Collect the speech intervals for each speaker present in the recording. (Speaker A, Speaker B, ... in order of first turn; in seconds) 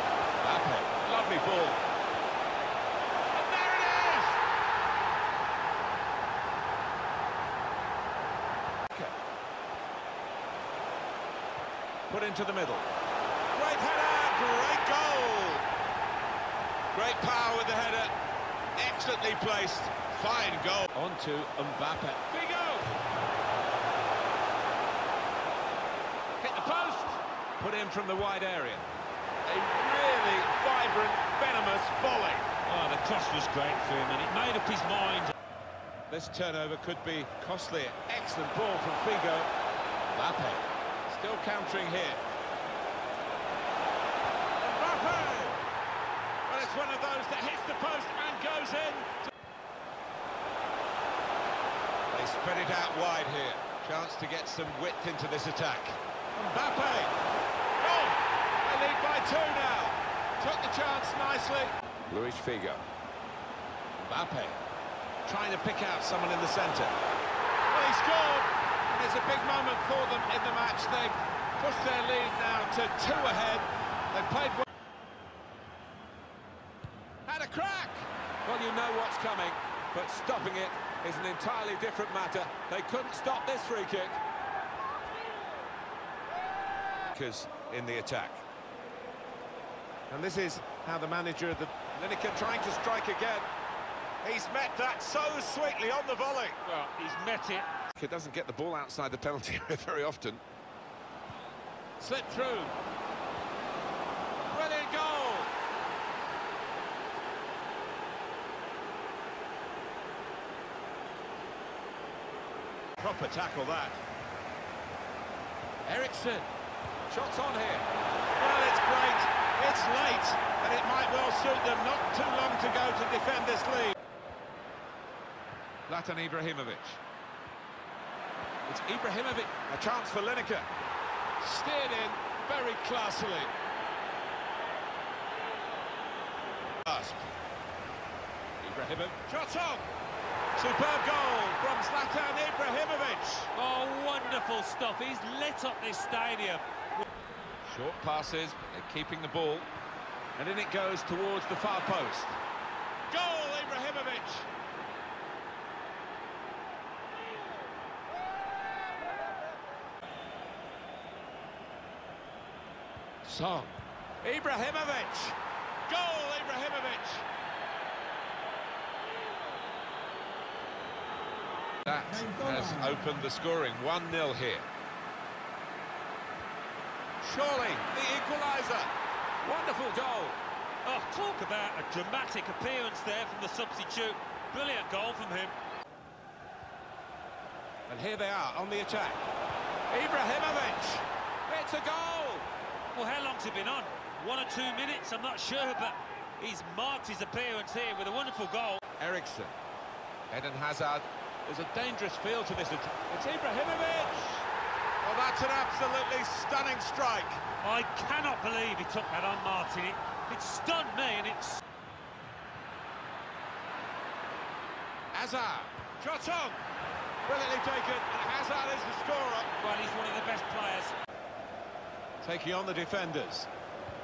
Speaker A: 0.4-1.9, 3.3-4.4, 12.1-12.9, 13.5-15.6, 16.9-18.1, 18.8-23.0, 26.4-28.9, 29.4-32.5, 36.1-39.5, 40.0-42.2, 44.6-45.6, 46.5-49.2, 52.1-57.2, 57.8-62.8, 64.0-64.6, 65.2-66.9, 67.7-74.6, 77.2-84.2, 87.1-88.4, 90.1-93.5, 94.2-96.6, 97.9-100.4, 102.0-102.8, 104.5-105.5, 113.0-114.0, 115.8-116.5, 117.1-117.9, 118.4-123.9, 125.9-127.0, 128.7-130.7, 131.4-133.5, 136.8-137.3, 138.6-139.9, 140.6-143.5, 147.6-149.7, 150.3-152.4, 153.1-154.5, 163.2-167.2, 171.8-174.7, 177.2-178.9, 179.4-180.4, 187.9-189.3, 189.9-192.5, 199.0-199.6, 200.3-204.5, 205.0-207.4, 215.1-216.6, 217.2-219.5, 222.2-223.5
Speaker B: 32.6-35.3, 96.6-97.7, 143.5-146.7, 180.8-185.5, 192.9-198.8, 207.6-211.6, 219.6-220.9